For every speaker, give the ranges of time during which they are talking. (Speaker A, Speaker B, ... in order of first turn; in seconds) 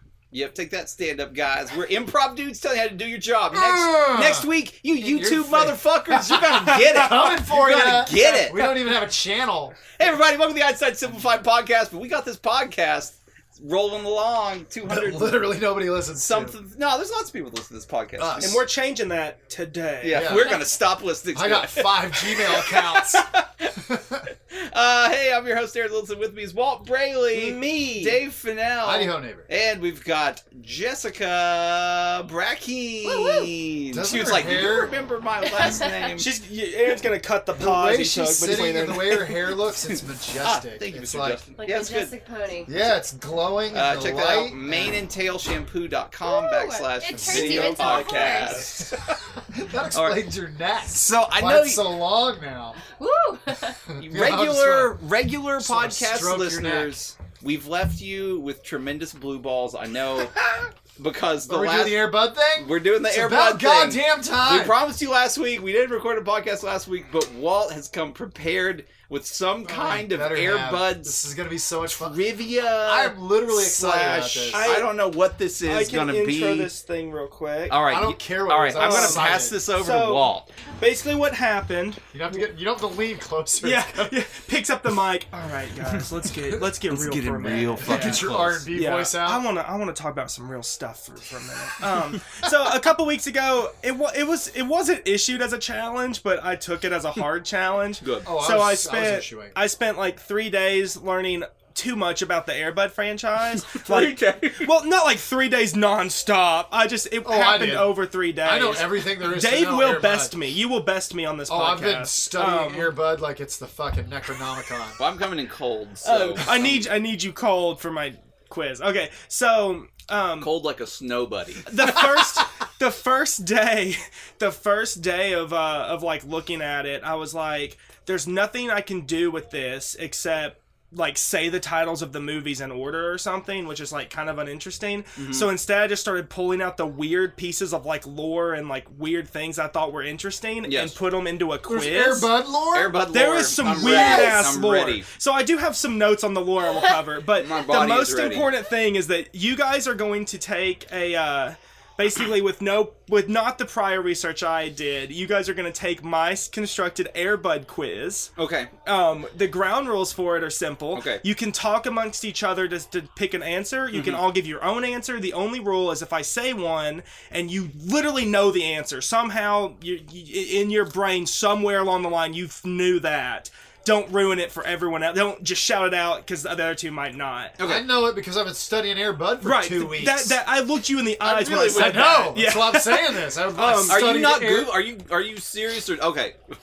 Speaker A: 0.3-8.8, 9.9-15.4, 16.1-18.6, 20.0-23.7, 24.5-36.3, 39.8-42.1, 43.7-49.2, 49.9-50.3, 50.9-52.0, 54.0-71.2, 72.0-76.7, 77.7-80.5, 86.9-88.7, 98.0-98.3, 103.5-104.7, 115.0-116.9, 120.4-122.2, 135.2-135.5, 140.6-141.0, 142.7-145.1, 147.3-148.5, 158.4-158.7, 160.9-161.2, 163.9-164.2, 177.6-177.9, 181.2-182.3, 183.8-186.4
Speaker B: 3.5-10.0, 14.8-16.6, 18.2-18.6, 20.1-20.6, 21.3-23.2, 23.8-24.2, 28.8-29.5, 33.9-35.0, 37.5-41.5, 42.7-45.0, 47.1-47.7, 49.5-52.8, 53.9-55.0, 55.6-57.0, 61.5-64.8, 69.6-72.2, 72.8-74.8, 77.9-79.6, 82.1-84.2, 87.5-89.4, 98.2-99.6, 107.2-110.3, 111.5-115.0, 141.7-143.0, 143.6-144.3, 177.6-180.4, 181.7-184.9
Speaker C: 18.4-20.5, 27.3-28.2, 36.1-39.5, 47.3-48.8, 74.5-75.0, 75.6-77.8, 78.7-82.0, 83.6-113.0, 116.0-120.5, 121.6-142.3, 143.1-158.3, 158.8-177.6, 179.4-184.0
Speaker D: 33.1-33.5, 35.5-36.0, 41.6-42.8, 46.2-48.6, 52.8-53.8, 144.0-144.4